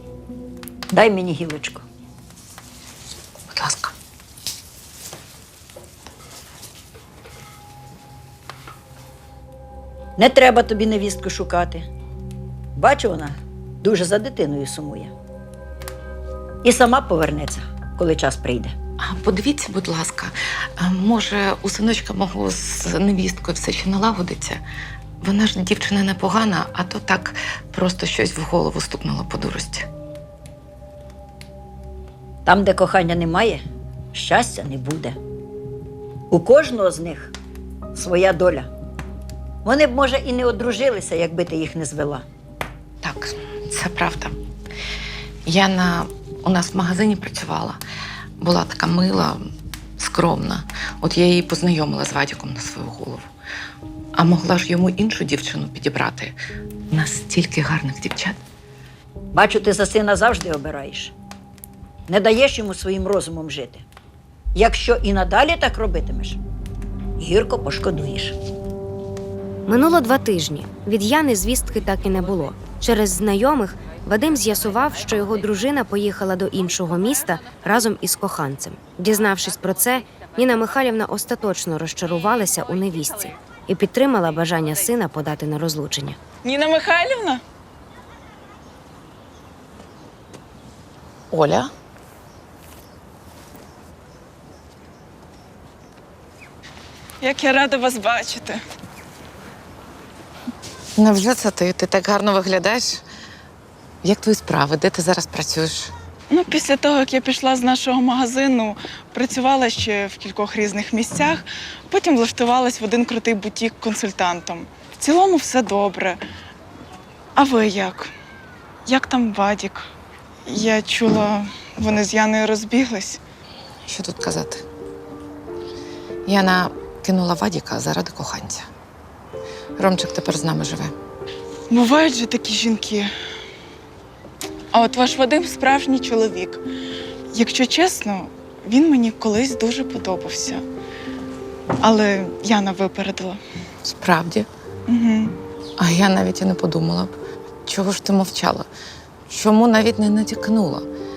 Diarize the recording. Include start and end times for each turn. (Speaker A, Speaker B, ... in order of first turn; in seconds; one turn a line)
Speaker A: 0.9-1.9
Speaker B: 3.5-3.9
Speaker A: 10.2-11.9
Speaker A: 12.8-15.1
Speaker A: 16.6-18.7
Speaker B: 19.0-24.6
Speaker B: 25.2-29.9
Speaker A: 32.5-33.6
Speaker A: 34.1-35.2
Speaker A: 36.3-37.3
Speaker A: 38.0-38.7
Speaker A: 39.6-42.2
Speaker B: 43.0-44.4
Speaker B: 45.5-47.8
Speaker B: 48.4-49.4
Speaker B: 50.0-53.3
Speaker B: 54.1-56.4
Speaker B: 56.9-58.4
Speaker A: 59.3-61.1
Speaker A: 62.1-63.9
Speaker A: 64.5-66.4
Speaker A: 67.2-68.4
Speaker C: 69.7-86.2
Speaker D: 86.4-87.4
Speaker B: 91.3-91.7
Speaker D: 97.2-98.6
Speaker B: 101.0-103.0
Speaker B: 104.0-105.9
Speaker D: 106.3-116.2
Speaker D: 117.4-118.1
Speaker D: 118.9-119.9
Speaker D: 120.5-123.2
Speaker B: 123.9-124.7
Speaker B: 126.3-128.7
Speaker B: 129.8-130.9
Speaker D: 131.7-133.1
Speaker D: 134.7-136.6
Speaker D: 137.3-140.6
Speaker D: 141.8-143.4
Speaker B: 143.8-144.5
Speaker D: 144.9-145.3
Speaker B: 145.8-148.7
Speaker B: 149.3-150.9